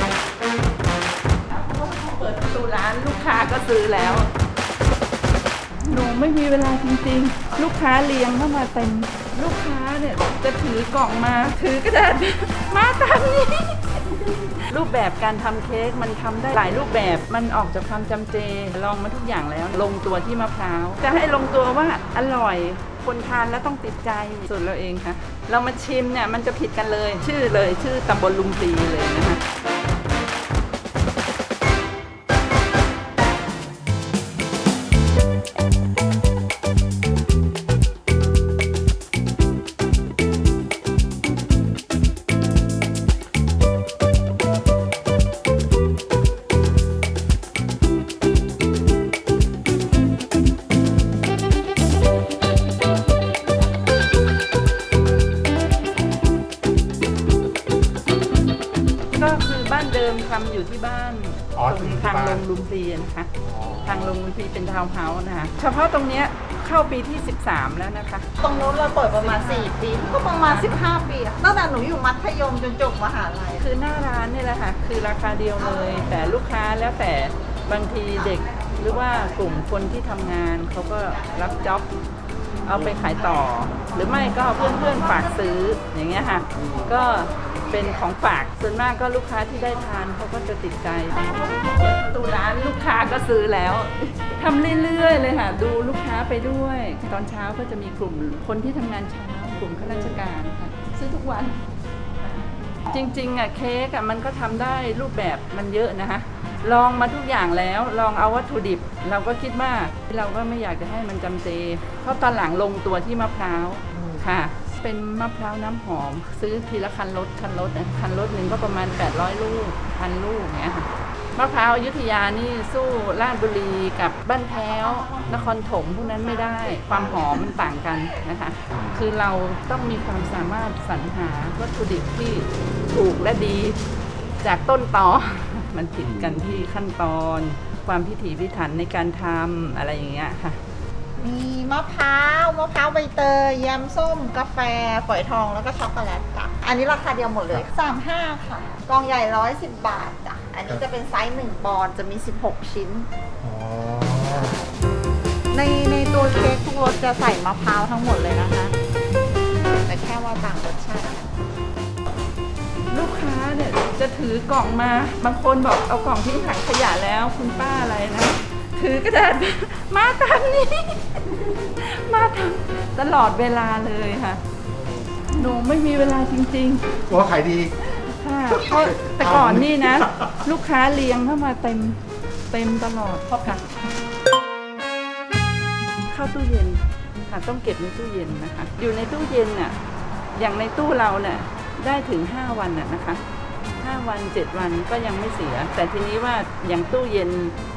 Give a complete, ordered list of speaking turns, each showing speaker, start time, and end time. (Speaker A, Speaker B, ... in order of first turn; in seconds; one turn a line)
Speaker A: 1.5-4.3
Speaker A: 5.8-29.4
Speaker A: 59.1-63.3
Speaker B: 61.6-62.4
Speaker B: 63.5-64.0
Speaker A: 63.8-68.3
Speaker C: 68.4-73.7
Speaker A: 69.2-69.7
Speaker A: 70.5-70.8
Speaker A: 73.6-81.9
Speaker C: 78.4-79.6
Speaker A: 82.6-101.6
Speaker C: 84.3-85.5
Speaker A: 102.2-133.8
Speaker C: 124.5-125.4
Speaker C: 126.0-127.5
Speaker A: 134.4-140.6
Speaker C: 141.2-153.1
Speaker B: 153.4-154.5
Speaker C: 155.5-158.7
Speaker C: 159.9-161.3
Speaker A: 162.9-174.4
Speaker A: 175.3-177.0
Speaker B: 177.1-177.7
Speaker A: 177.9-183.7
Speaker B: 178.8-179.8
Speaker A: 186.1-189.8
Speaker A: 190.3-193.2
Speaker A: 193.8-197.6